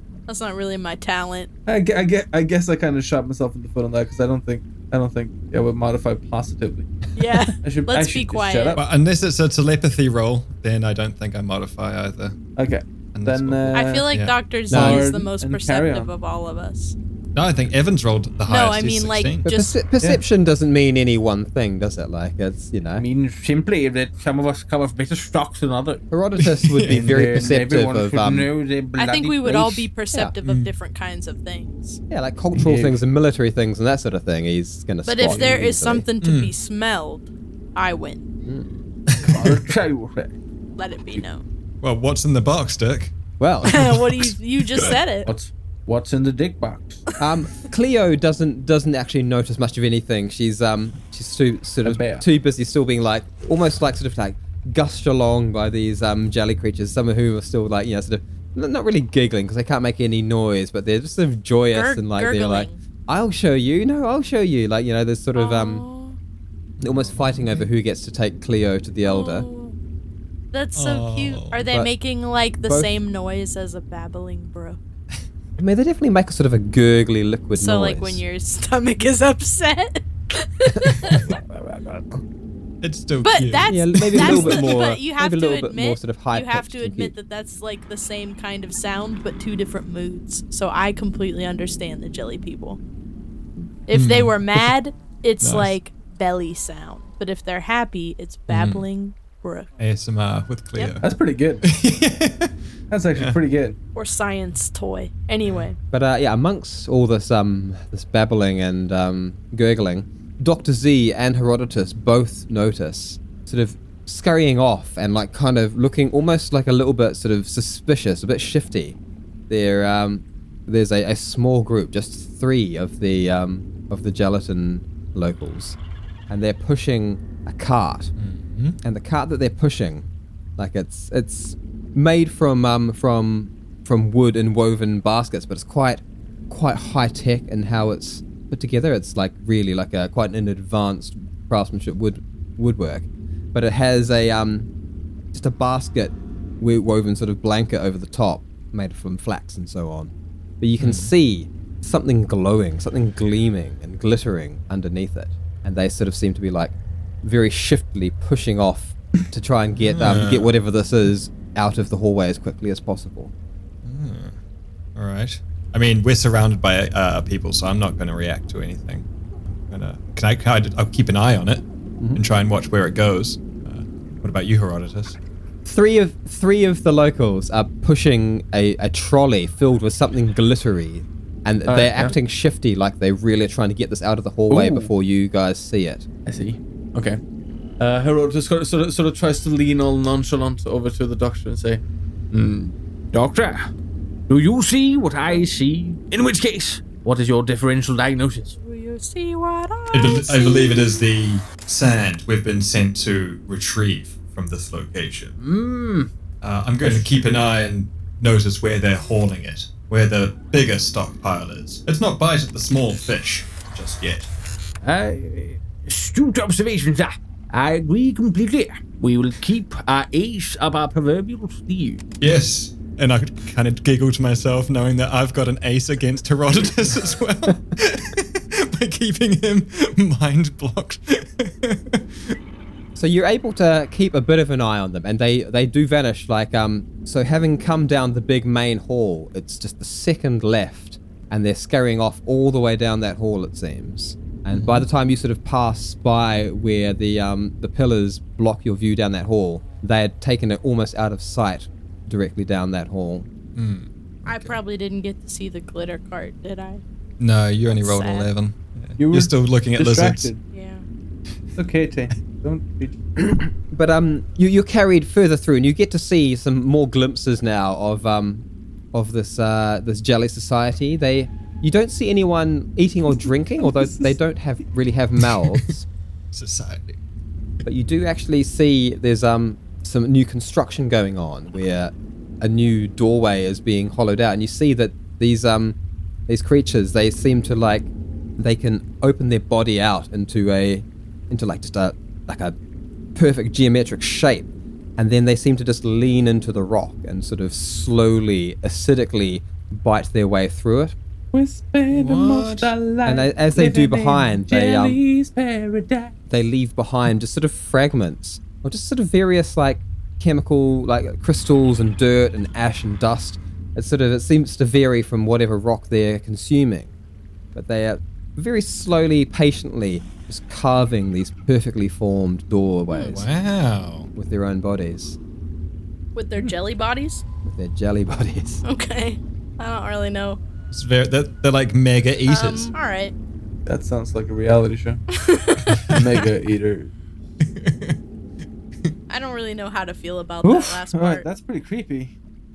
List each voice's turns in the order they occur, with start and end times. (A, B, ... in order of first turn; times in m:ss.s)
0:00.3-0:01.5 A
0:01.6-0:06.9 B
0:07.2-0:08.8 A
0:07.6-0:08.8 B
0:08.7-0:12.4 C
0:12.6-0:14.1 B
0:13.1-0:14.3 C
0:13.7-0:17.0 A
0:14.7-0:15.0 D
0:14.7-0:16.1 B
0:17.3-0:19.4 C
0:18.5-0:19.8 A
0:19.4-0:23.0 D
0:23.0-0:26.0 B
0:26.1-0:28.5 D
0:26.4-0:27.4 C
0:26.9-0:29.9 B
0:29.0-0:32.0 A
0:30.4-0:30.7 C
0:32.1-0:36.0 D
0:32.6-0:33.0 B
0:35.0-0:38.2 A
0:35.2-0:35.6 B
0:36.2-0:36.5 C
0:39.1-0:39.7 C
0:39.2-0:40.3 B
0:40.8-0:41.4 A
0:41.8-0:43.1 C
0:43.4-0:43.9 D
0:43.6-0:45.3 A
0:43.7-0:45.0 C
0:45.2-0:47.0 B
0:47.2-1:05.8 D
0:51.8-0:52.2 B
1:01.7-1:02.8 A
1:05.3-1:06.2 A
1:06.8-1:07.6 C
1:06.8-1:09.4 D
1:09.0-1:09.8 A
1:10.5-1:14.8 A
1:10.8-1:11.6 C
1:12.6-1:13.0 D
1:15.6-1:18.2 D
1:17.5-1:21.3 A
1:20.8-1:22.1 D
1:22.8-1:24.7 C
1:23.2-1:32.8 A
1:23.7-1:27.1 D
1:33.9-1:39.7 A
1:33.9-1:34.7 C
1:35.4-1:35.7 C
1:38.5-1:38.8 C
1:39.8-1:41.1 C
1:41.0-1:41.7 B
1:41.6-1:42.5 C
1:42.9-1:43.8 B
1:43.9-1:45.8 A
1:45.9-1:59.0 D
1:59.5-2:05.8 D
2:06.3-2:08.1 D
2:08.2-2:08.8 C
2:08.8-2:24.7 D
2:25.3-2:43.3 D
2:30.8-2:31.1 C
2:39.8-2:40.5 C
2:43.8-2:44.4 C
2:45.0-2:55.2 C
2:55.6-3:06.0 D
3:01.7-3:02.1 B
3:04.5-3:04.9 B
3:06.2-3:07.2 B
3:07.8-3:13.7 B
3:14.3-3:18.6 B
3:18.6-3:21.0 A
3:19.9-3:25.4 C
3:25.4-3:26.1 B
3:26.4-3:34.3 C
3:26.8-3:27.1 B
3:34.8-3:42.0 B
3:42.2-3:52.4 C
3:53.0-4:13.3 D
4:04.5-4:04.8 C
4:13.6-4:14.6 C
4:14.2-4:16.8 A
4:17.2-4:20.3 C
4:17.7-4:18.3 A
4:19.0-4:20.4 B
4:20.5-4:20.8 A
4:21.6-4:23.4 B
4:23.6-4:35.8 D
4:36.3-4:37.0 C
4:37.6-4:45.8 D
4:46.3-4:52.6 D
4:53.1-5:01.0 D
5:01.3-5:06.1 B
5:01.9-5:02.7 C
5:03.0-5:05.0 D
5:06.3-5:16.9 D
5:17.5-5:23.3 D
5:22.9-5:23.2 A
5:23.1-5:24.1 C
5:24.1-5:25.2 D
5:26.1-5:27.2 A
5:27.4-5:28.6 D
5:28.6-5:30.4 A
5:30.7-5:32.7 C
5:32.3-5:33.1 A
5:33.6-5:35.0 B
5:35.1-5:35.9 A
5:35.7-5:36.0 C
5:35.9-5:36.9 B
5:37.4-5:38.0 C
5:39.1-5:41.3 A
5:40.4-5:42.1 B